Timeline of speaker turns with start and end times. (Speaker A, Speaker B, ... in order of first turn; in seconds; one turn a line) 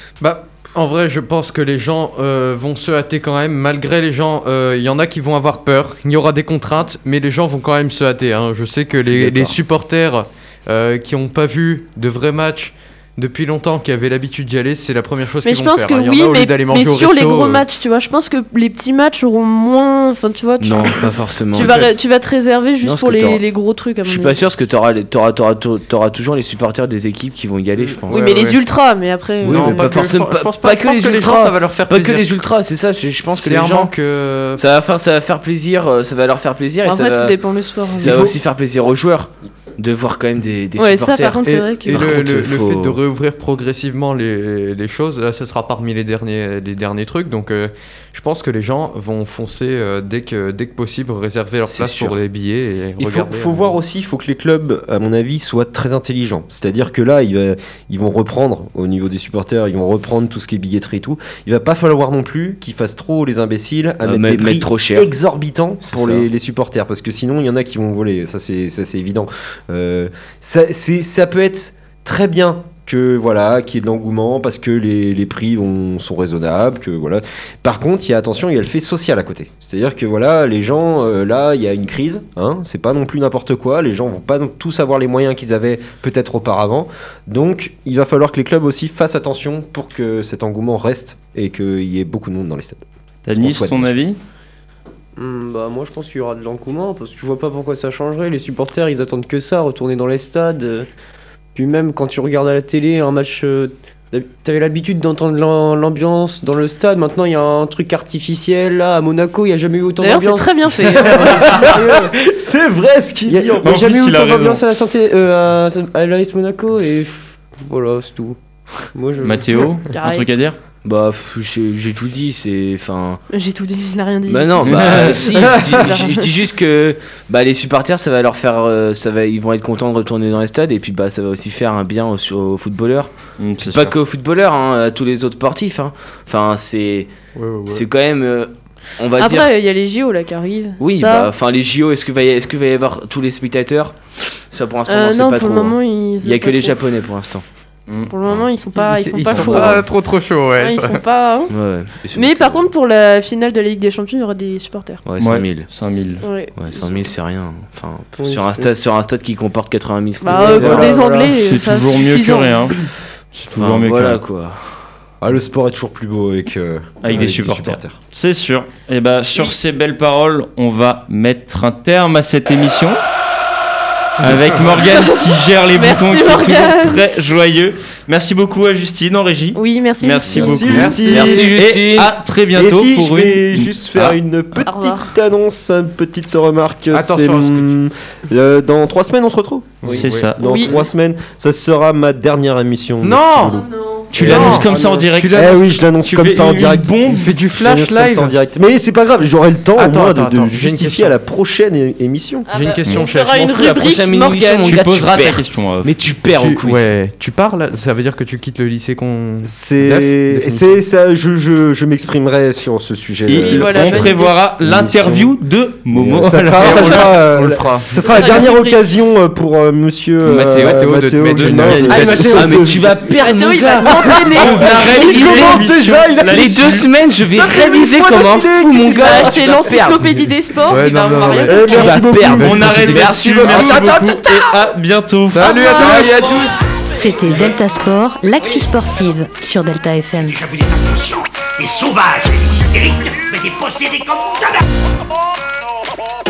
Speaker A: 0.2-17.6
Speaker B: 9.1-9.6
Speaker C: 15.4-24.4
Speaker D: 20.6-21.9
Speaker A: 21.6-21.9
Speaker D: 22.8-23.4
Speaker D: 24.0-28.3
Speaker A: 27.8-28.6
Speaker C: 28.1-29.9
Speaker A: 29.4-32.3
Speaker D: 29.4-33.9
Speaker A: 33.3-34.6
Speaker D: 34.6-37.4
Speaker C: 36.8-38.3
Speaker D: 38.0-43.0
Speaker A: 38.0-38.3
Speaker C: 40.8-42.1
Speaker A: 41.4-53.7
Speaker D: 51.7-52.1
Speaker E: 53.0-92.8
Speaker D: 64.0-65.1
Speaker D: 65.9-66.3
Speaker B: 93.3-94.2
Speaker E: 93.4-93.9
Speaker F: 95.2-100.9
Speaker F: 101.5-112.2
Speaker C: 110.0-111.1
Speaker E: 111.0-113.8
Speaker F: 113.3-119.7
Speaker B: 113.6-114.6
Speaker B: 119.2-120.6
Speaker C: 119.9-120.3
Speaker D: 120.8-123.2
Speaker C: 123.3-126.3
Speaker D: 124.3-137.1
Speaker B: 124.7-125.5
Speaker A: 125.5-125.8
Speaker B: 133.4-134.0
Speaker A: 137.3-137.8
Speaker D: 137.7-139.5
Speaker C: 139.2-141.3
Speaker D: 140.8-147.4
Speaker C: 144.9-146.8
Speaker B: 147.9-148.1
Speaker C: 148.1-149.9
Speaker A: 148.8-151.0
Speaker D: 149.4-149.8
Speaker C: 150.6-151.5
Speaker D: 151.5-152.7
Speaker C: 152.1-155.0
Speaker D: 155.1-155.7
Speaker B: 155.2-156.3
Speaker C: 156.2-157.1
Speaker D: 156.6-161.0
Speaker F: 158.2-158.7
Speaker C: 160.2-162.7
Speaker F: 160.3-161.3
Speaker B: 161.1-164.2
Speaker D: 163.5-164.6
Speaker E: 165.2-168.0
Speaker B: 167.0-173.0
Speaker B: 174.2-184.2
Speaker A: 174.2-174.8
Speaker C: 174.8-177.0
Speaker C: 179.6-180.7
Speaker D: 180.3-182.1
Speaker E: 180.3-181.6
Speaker A: 180.7-181.5
Speaker E: 182.5-194.7
Speaker C: 184.6-185.1
Speaker A: 186.9-187.7
Speaker B: 189.8-190.4
Speaker A: 189.9-190.3
Speaker C: 190.4-190.7
Speaker A: 193.0-193.6
Speaker C: 193.5-194.1
Speaker B: 194.1-197.3
Speaker A: 194.2-195.7
Speaker F: 194.2-195.1
Speaker E: 195.3-202.5
Speaker A: 197.1-198.3
Speaker A: 199.8-201.1
Speaker C: 202.5-204.8
Speaker A: 202.5-203.6
Speaker D: 203.3-206.9
Speaker B: 204.7-206.1
Speaker A: 206.3-210.8
Speaker E: 209.4-215.4
Speaker B: 213.3-217.2
Speaker C: 213.3-214.3
Speaker E: 215.9-222.9
Speaker A: 216.5-218.0
Speaker C: 217.9-218.8
Speaker B: 220.3-222.2
Speaker A: 220.4-222.6
Speaker D: 221.5-230.1
Speaker F: 222.5-222.7
Speaker C: 223.2-225.4
Speaker F: 223.8-226.8
Speaker B: 224.4-226.9
Speaker E: 225.1-226.4
Speaker E: 227.3-229.5
Speaker F: 227.4-228.3
Speaker C: 228.9-231.9
Speaker A: 230.1-233.8
Speaker E: 231.5-232.7
Speaker D: 231.5-234.4
Speaker B: 231.8-236.3
Speaker A: 235.3-236.3
Speaker D: 235.4-236.7
Speaker C: 235.5-236.1
Speaker G: 236.9-240.4
Speaker H: 240.2-244.6